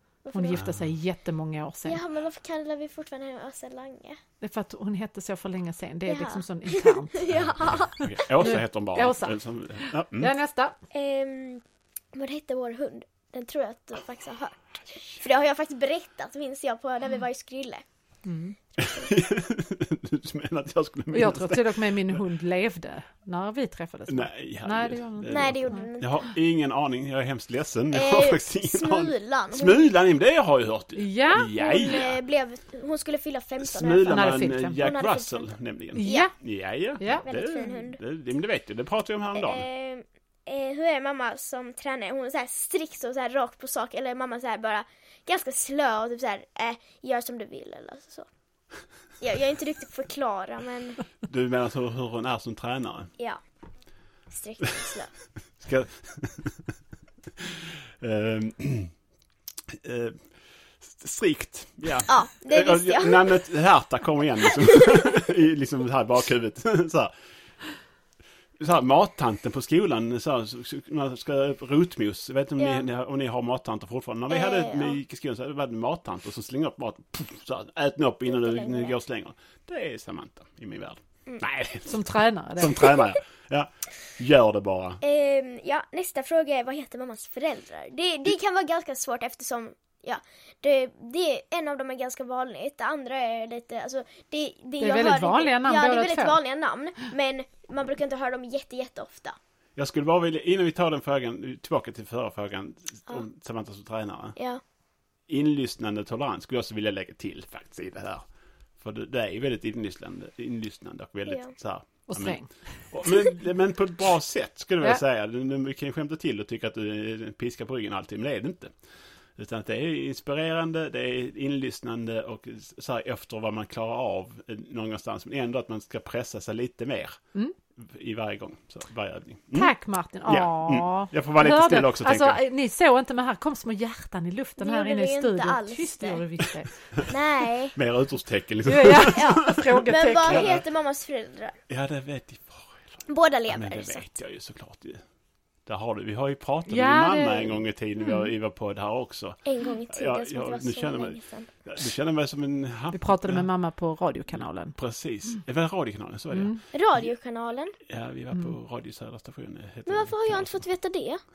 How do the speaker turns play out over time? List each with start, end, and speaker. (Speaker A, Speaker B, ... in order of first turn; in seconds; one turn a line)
Speaker A: 0.2-0.6
Speaker B: 0.3-2.0
Speaker C: 0.5-0.9
Speaker A: 1.8-4.2
Speaker B: 4.4-7.2
Speaker A: 6.1-8.2
Speaker C: 7.3-10.3
Speaker B: 8.4-9.4
Speaker B: 10.2-10.8
Speaker A: 10.9-11.6
Speaker A: 12.1-17.8
Speaker B: 18.2-18.6
Speaker C: 18.8-22.2
Speaker B: 21.1-25.8
Speaker C: 24.1-32.2
Speaker A: 25.3-26.2
Speaker A: 27.9-29.9
Speaker B: 30.9-31.6
Speaker A: 31.6-36.3
Speaker C: 33.6-39.6
Speaker B: 34.1-34.8
Speaker B: 36.0-36.3
Speaker B: 37.0-37.2
Speaker A: 37.1-38.0
Speaker A: 39.3-48.3
Speaker A: 49.2-51.0
Speaker C: 51.2-53.1
Speaker A: 54.3-55.1
Speaker C: 55.6-56.7
Speaker C: 57.4-58.9
Speaker C: 59.7-60.2
Speaker C: 60.8-67.1
Speaker A: 62.1-63.4
Speaker A: 64.7-65.0
Speaker C: 68.6-82.0
Speaker A: 72.6-72.8
Speaker A: 74.3-75.0
Speaker A: 78.3-79.0
Speaker B: 81.9-82.9
Speaker C: 82.6-85.0
Speaker A: 85.0-99.3
Speaker B: 94.8-96.4
Speaker C: 99.8-104.3
Speaker A: 104.3-104.6
Speaker C: 105.3-108.2
Speaker C: 108.8-118.7
Speaker A: 111.3-111.5
Speaker B: 112.1-112.5
Speaker C: 119.3-127.2
Speaker C: 127.8-129.7
Speaker B: 129.5-136.7
Speaker C: 130.3-132.4
Speaker A: 134.6-136.2
Speaker A: 137.1-137.7
Speaker C: 137.7-140.6
Speaker B: 138.7-140.5
Speaker A: 139.1-141.6
Speaker C: 141.7-145.0
Speaker A: 143.1-144.1
Speaker C: 145.7-153.4
Speaker B: 146.7-148.3
Speaker A: 149.4-151.5
Speaker B: 152.9-154.8
Speaker C: 154.8-157.1
Speaker B: 156.3-156.6
Speaker A: 156.7-157.8
Speaker C: 157.8-160.6
Speaker A: 159.9-161.2